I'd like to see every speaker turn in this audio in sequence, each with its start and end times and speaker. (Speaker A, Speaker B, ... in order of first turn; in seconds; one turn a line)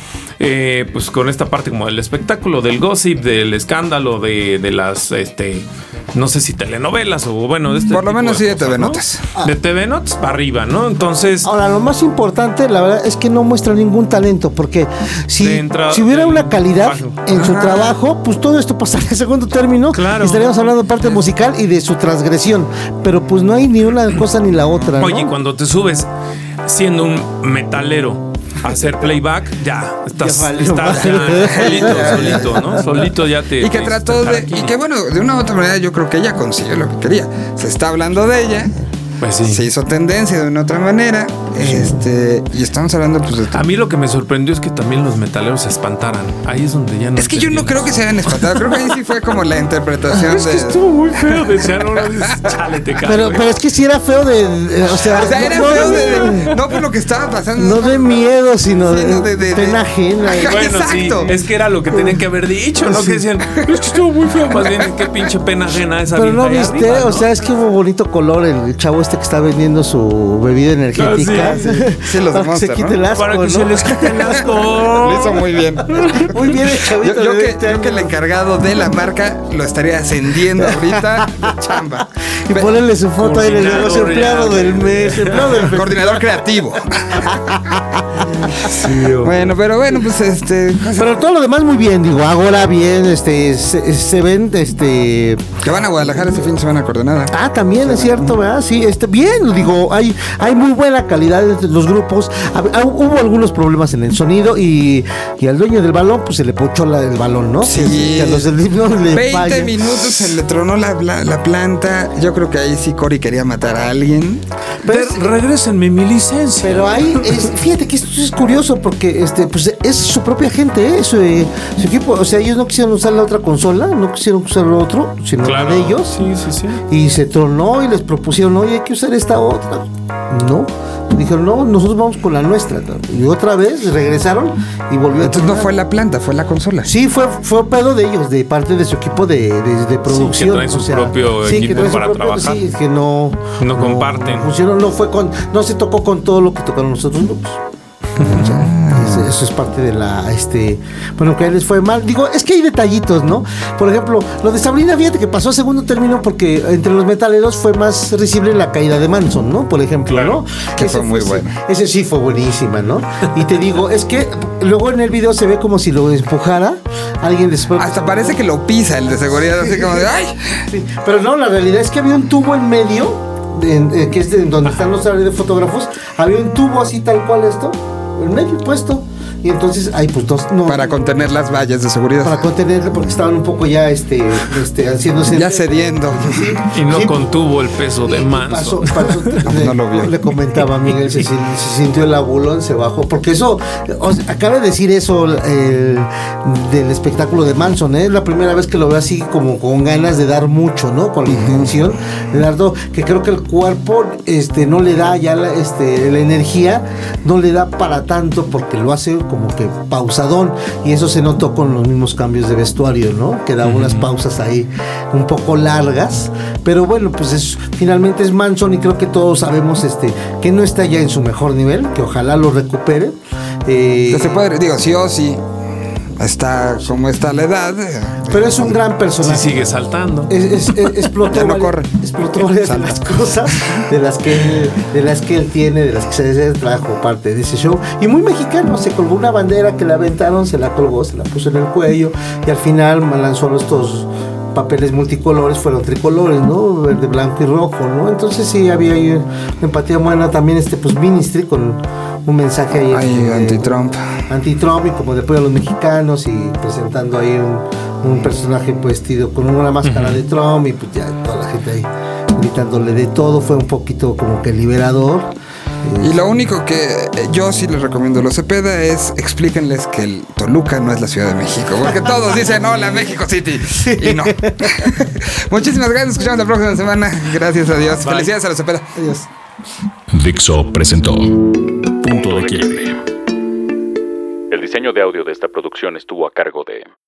Speaker A: 0.4-11.5
Speaker B: 7.8-9.3
Speaker C: 11.4-25.3
Speaker A: 15.4-17.1
Speaker B: 17.3-17.9
Speaker A: 19.9-21.2
Speaker B: 24.5-25.1
Speaker A: 25.0-26.1
Speaker A: 26.6-34.7
Speaker C: 30.1-32.9
Speaker B: 31.3-33.1
Speaker B: 33.6-38.8
Speaker A: 39.2-39.6
Speaker B: 39.4-43.6
Speaker A: 43.5-48.8
Speaker B: 47.1-52.6
Speaker A: 50.1-53.4
Speaker C: 53.0-56.5
Speaker B: 55.1-58.2
Speaker A: 55.4-56.4
Speaker C: 57.5-60.6
Speaker B: 58.8-61.3
Speaker A: 60.4-67.2
Speaker C: 62.8-63.2
Speaker B: 63.5-63.8
Speaker B: 64.5-65.0
Speaker C: 66.1-74.5
Speaker A: 71.0-71.6
Speaker B: 71.3-73.0
Speaker A: 73.1-76.3
Speaker B: 74.3-82.7
Speaker C: 75.9-78.1
Speaker C: 80.6-81.5
Speaker C: 82.5-86.2
Speaker A: 83.2-85.7
Speaker B: 85.7-87.4
Speaker C: 87.1-89.1
Speaker B: 88.8-91.2
Speaker A: 88.8-89.3
Speaker C: 90.9-95.5
Speaker B: 95.6-98.3
Speaker C: 96.0-96.5
Speaker C: 97.3-110.2
Speaker B: 107.6-108.5
Speaker B: 109.1-114.4
Speaker A: 114.8-117.5
Speaker C: 114.8-115.3
Speaker C: 116.6-126.2
Speaker A: 125.4-126.8
Speaker C: 126.9-135.7
Speaker B: 135.2-136.9
Speaker C: 136.8-147.6
Speaker A: 140.1-142.6
Speaker A: 143.6-144.5
Speaker C: 148.2-168.4
Speaker B: 148.2-149.3
Speaker A: 160.1-160.4
Speaker B: 160.8-161.6
Speaker B: 167.8-170.6
Speaker C: 169.3-170.1
Speaker C: 170.7-181.1
Speaker B: 180.7-182.5
Speaker C: 182.2-187.3
Speaker B: 185.2-186.6
Speaker A: 186.7-189.4
Speaker C: 187.9-224.5
Speaker B: 189.4-190.1
Speaker B: 201.2-201.8
Speaker A: 213.6-214.1
Speaker B: 224.1-225.4
Speaker B: 226.2-228.8
Speaker C: 228.3-229.6
Speaker A: 229.2-230.3
Speaker C: 230.3-265.3
Speaker B: 231.3-231.9
Speaker B: 232.5-233.8
Speaker B: 252.9-254.2
Speaker A: 259.8-260.2
Speaker C: 265.8-266.2
Speaker B: 266.0-279.0
Speaker C: 273.8-274.9
Speaker A: 278.0-278.3
Speaker C: 278.9-279.3
Speaker D: 280.1-283.0
Speaker A: 282.0-282.7
Speaker E: 282.1-282.6
Speaker E: 284.5-286.9